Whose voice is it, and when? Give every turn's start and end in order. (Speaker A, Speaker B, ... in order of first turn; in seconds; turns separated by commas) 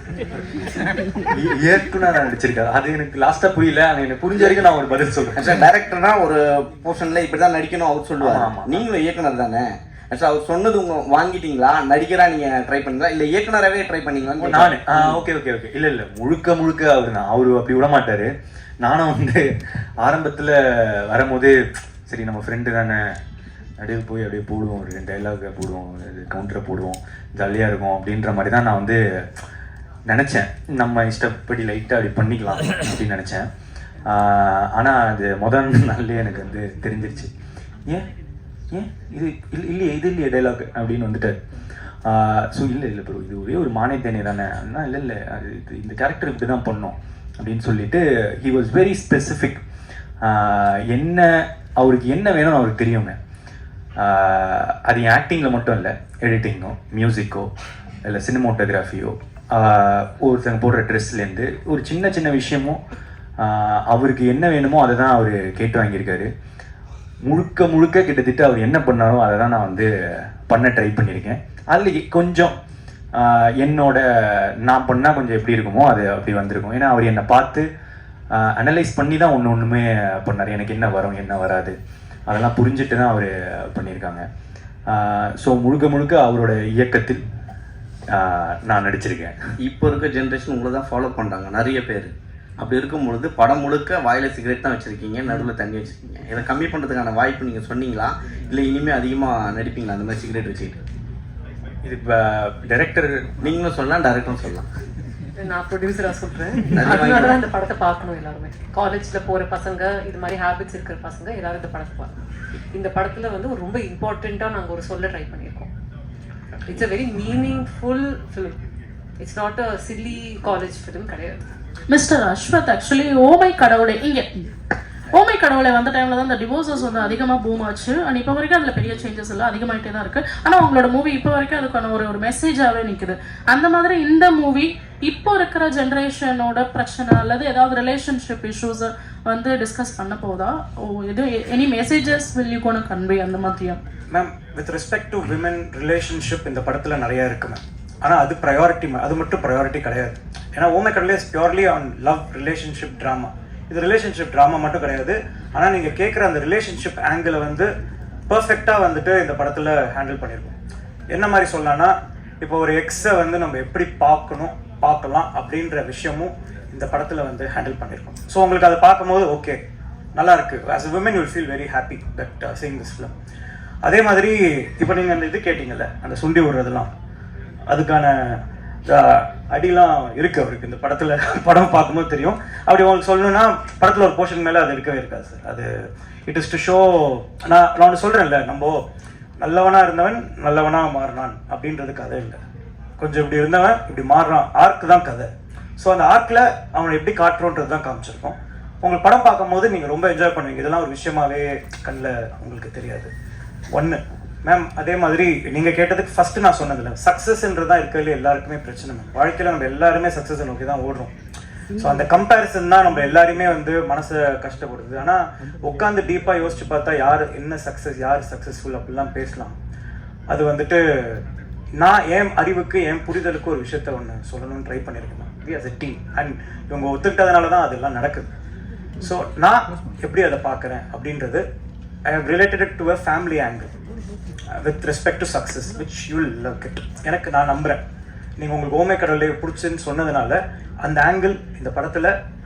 Speaker A: 1.3-5.6, Speaker B: 5.4-15.2, Speaker A: 8.2-8.8, Speaker A: 14.4-18.3, Speaker A: 18.8-19.5, Speaker A: 20.0-21.6, Speaker A: 22.1-23.0, Speaker A: 23.8-29.0, Speaker A: 30.1-33.5, Speaker A: 34.1-37.3, Speaker A: 38.7-41.4, Speaker A: 42.1-49.6, Speaker A: 50.2-53.2, Speaker A: 54.0-57.5, Speaker A: 58.0-62.8, Speaker A: 63.4-66.3, Speaker A: 67.3-69.9, Speaker A: 70.5-72.5, Speaker A: 73.2-77.7, Speaker A: 78.3-81.8, Speaker A: 82.3-84.2, Speaker A: 84.9-87.2, Speaker A: 88.1-89.4, Speaker B: 89.6-100.8, Speaker A: 101.8-103.4, Speaker B: 103.4-104.7, Speaker C: 105.4-112.1, Speaker B: 106.8-107.4, Speaker C: 112.7-115.7, Speaker B: 116.6-116.8, Speaker C: 116.7-118.6, Speaker C: 119.2-121.4, Speaker D: 121.9-124.3, Speaker D: 125.1-143.8, Speaker E: 144.1-157.7, Speaker E: 158.3-160.6, Speaker E: 161.1-169.6, Speaker E: 170.2-173.1, Speaker E: 173.8-176.9, Speaker E: 177.7-185.7, Speaker E: 186.3-188.8, Speaker E: 189.4-192.4, Speaker E: 193.0-203.1, Speaker E: 203.7-211.1, Speaker E: 211.8-219.6, Speaker E: 220.3-221.2, Speaker E: 221.8-228.3, Speaker E: 229.0-231.4, Speaker E: 232.1-233.7, Speaker E: 234.5-237.8, Speaker E: 238.4-242.1